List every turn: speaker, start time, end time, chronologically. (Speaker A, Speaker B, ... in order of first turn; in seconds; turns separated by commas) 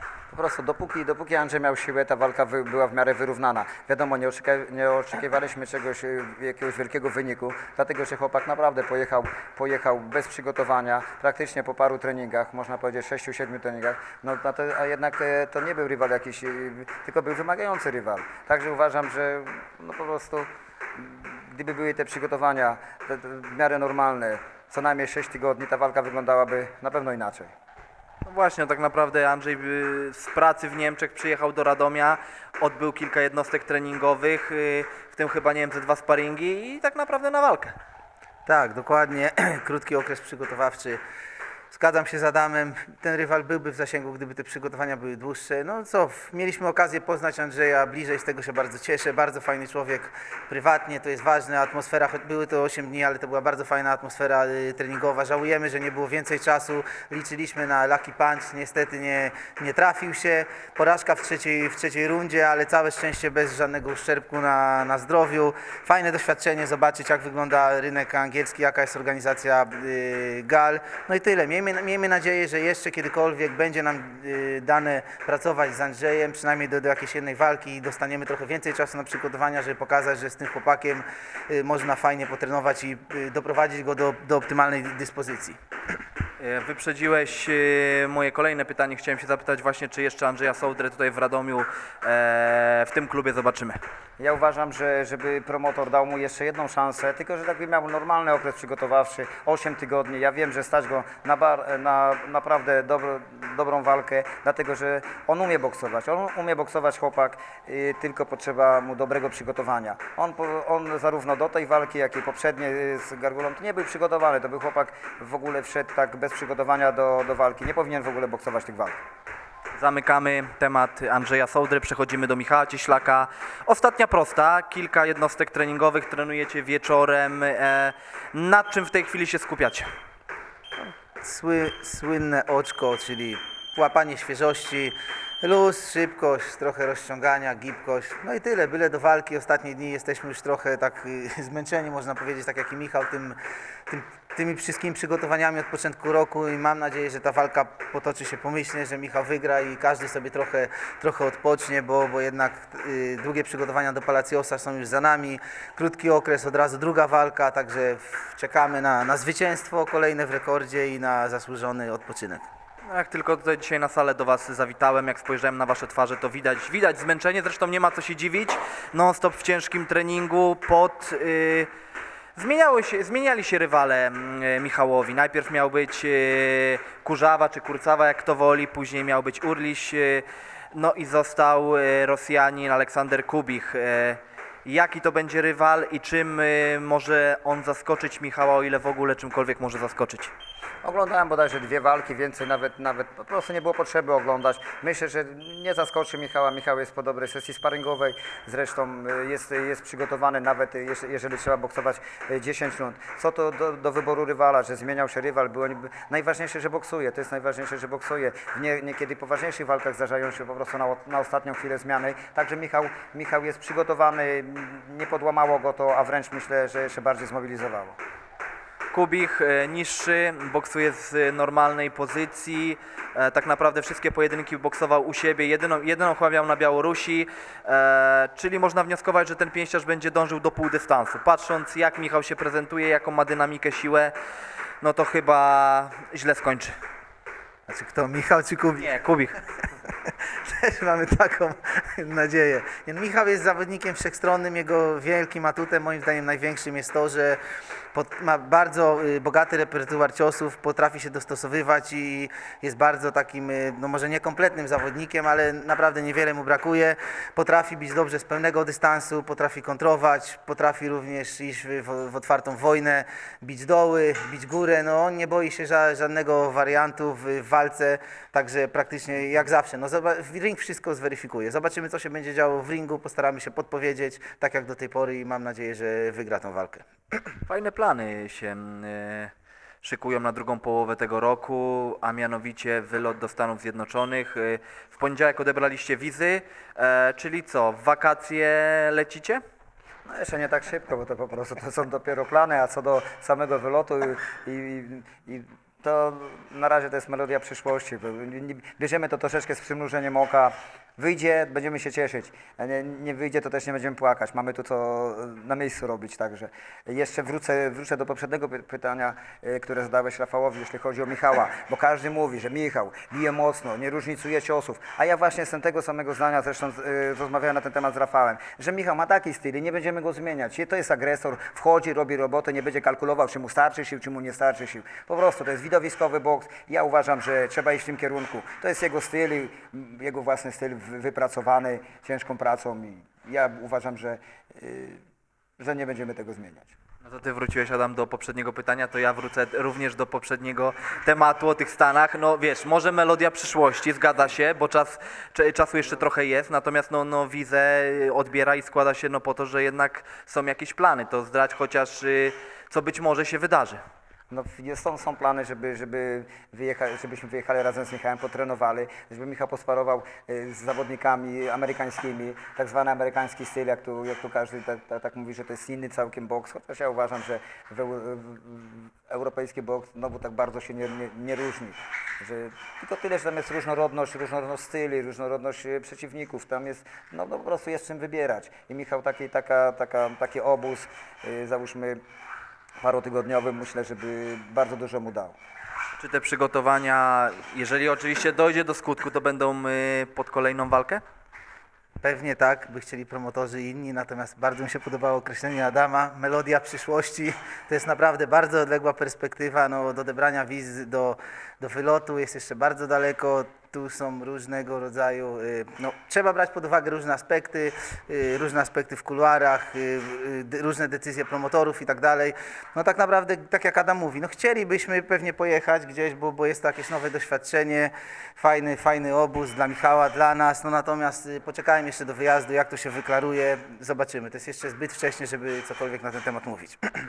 Speaker A: 0.3-27.5, Speaker B: 28.2-37.7, Speaker C: 38.5-41.0, Speaker C: 41.7-85.6, Speaker B: 86.4-93.8, Speaker A: 94.2-119.0, Speaker B: 119.8-129.9, Speaker C: 130.8-143.4, Speaker C: 143.9-162.4, Speaker B: 162.9-171.7, Speaker B: 172.4-190.3, Speaker A: 190.8-218.0, Speaker B: 218.9-234.1, Speaker B: 234.8-236.7, Speaker C: 237.7-238.9, Speaker B: 238.8-239.4, Speaker C: 240.1-247.4, Speaker C: 247.9-277.3, Speaker B: 277.5-289.4, Speaker A: 290.1-335.0, Speaker A: 335.6-336.8, Speaker B: 337.0-353.8, Speaker A: 354.3-382.0, Speaker A: 382.8-385.4, Speaker B: 386.0-391.0, Speaker C: 392.0-426.8